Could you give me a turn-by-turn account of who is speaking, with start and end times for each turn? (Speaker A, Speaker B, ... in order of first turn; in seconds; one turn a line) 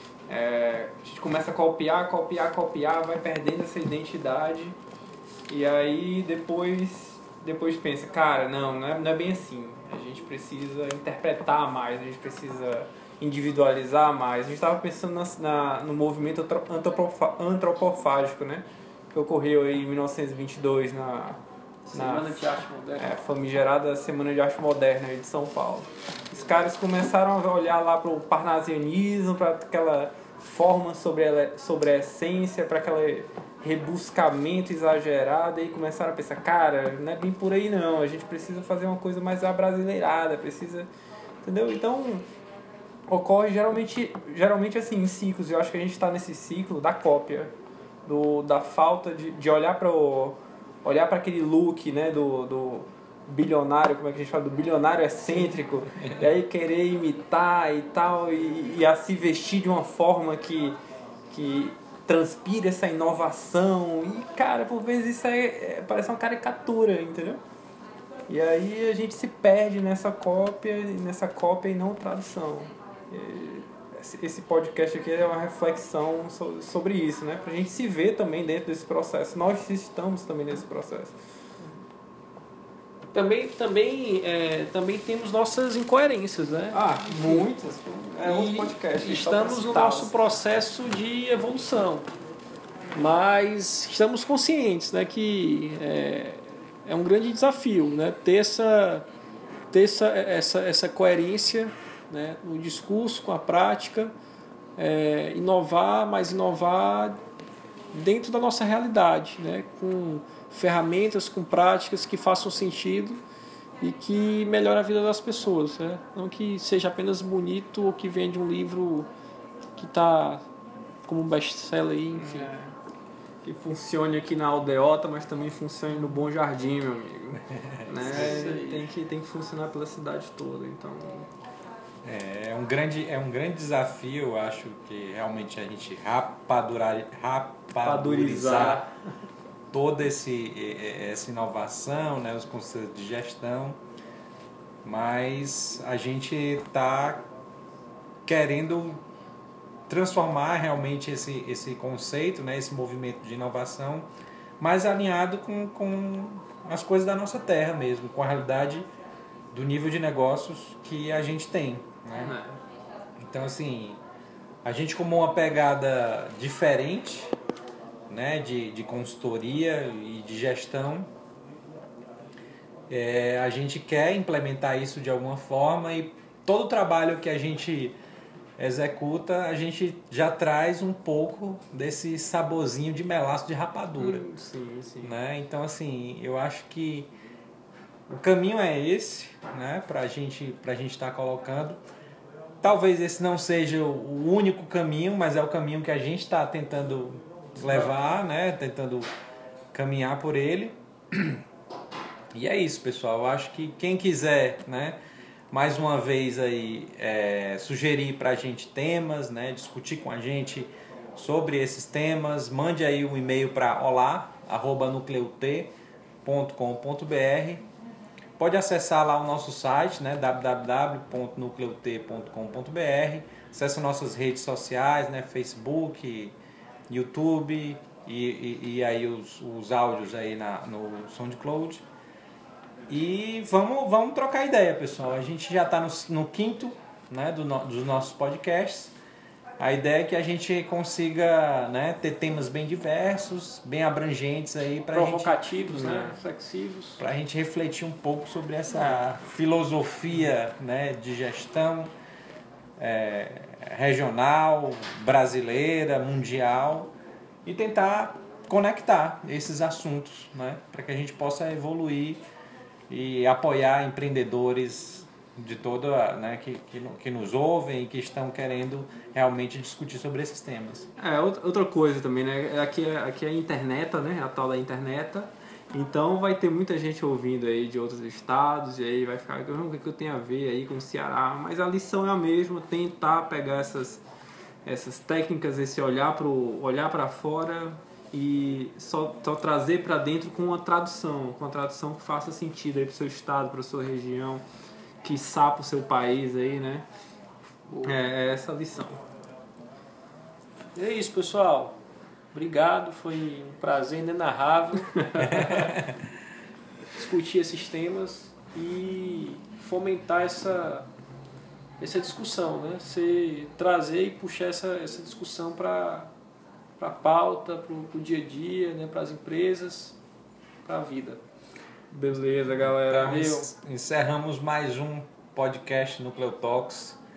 Speaker A: 0.3-4.8
Speaker A: 5.5-21.4
Speaker B: 21.9-23.1
Speaker A: 21.9-22.4
Speaker A: 23.0-40.9
Speaker A: 41.4-42.3
Speaker A: 43.1-47.5
Speaker A: 48.0-60.8
Speaker C: 56.0-56.2
Speaker A: 61.3-67.4
Speaker A: 68.3-81.2
Speaker B: 83.1-87.5
Speaker A: 86.7-90.2
Speaker B: 88.2-92.0
Speaker B: 92.9-99.1
Speaker B: 99.7-104.1
Speaker B: 104.8-107.2
Speaker B: 107.9-113.2
Speaker B: 113.8-119.1
Speaker B: 119.8-120.4
Speaker B: 121.0-122.5
Speaker A: 122.1-122.8
Speaker A: 123.4-131.3
Speaker C: 127.5-128.3
Speaker B: 128.0-128.8
Speaker C: 132.0-138.8
Speaker A: 137.8-138.9
Speaker C: 139.7-143.8
Speaker C: 144.8-147.2
Speaker C: 148.2-149.0
Speaker C: 149.9-154.1
Speaker C: 154.6-158.9
Speaker C: 159.5-162.4
Speaker A: 162.2-162.6
Speaker C: 163.2-164.0
Speaker C: 164.6-167.3
Speaker C: 168.1-171.1
Speaker C: 172.9-178.0
Speaker C: 178.6-184.2
Speaker A: 184.0-185.1
Speaker C: 185.0-187.1
Speaker C: 188.1-191.8
Speaker C: 192.6-199.1
Speaker A: 197.6-197.9
Speaker C: 199.7-201.4
Speaker C: 202.3-205.0
Speaker C: 205.5-217.6
Speaker C: 218.4-226.3
Speaker C: 226.9-231.8
Speaker C: 232.9-238.9
Speaker C: 239.6-245.3
Speaker B: 244.9-247.0
Speaker A: 245.7-246.2
Speaker C: 247.0-251.9
Speaker C: 252.8-256.9
Speaker C: 257.4-262.2
Speaker C: 262.9-270.9
Speaker A: 271.0-284.0
Speaker A: 284.6-294.4
Speaker A: 295.0-296.9
Speaker B: 297.7-297.9
Speaker A: 297.8-299.0
Speaker B: 300.7-301.8
Speaker B: 302.3-305.7
Speaker A: 305.0-305.5
Speaker C: 305.2-306.0
Speaker B: 306.9-310.9
Speaker B: 311.8-316.1
Speaker B: 316.8-320.0
Speaker B: 320.6-321.2
Speaker A: 321.9-323.4
Speaker C: 322.7-327.0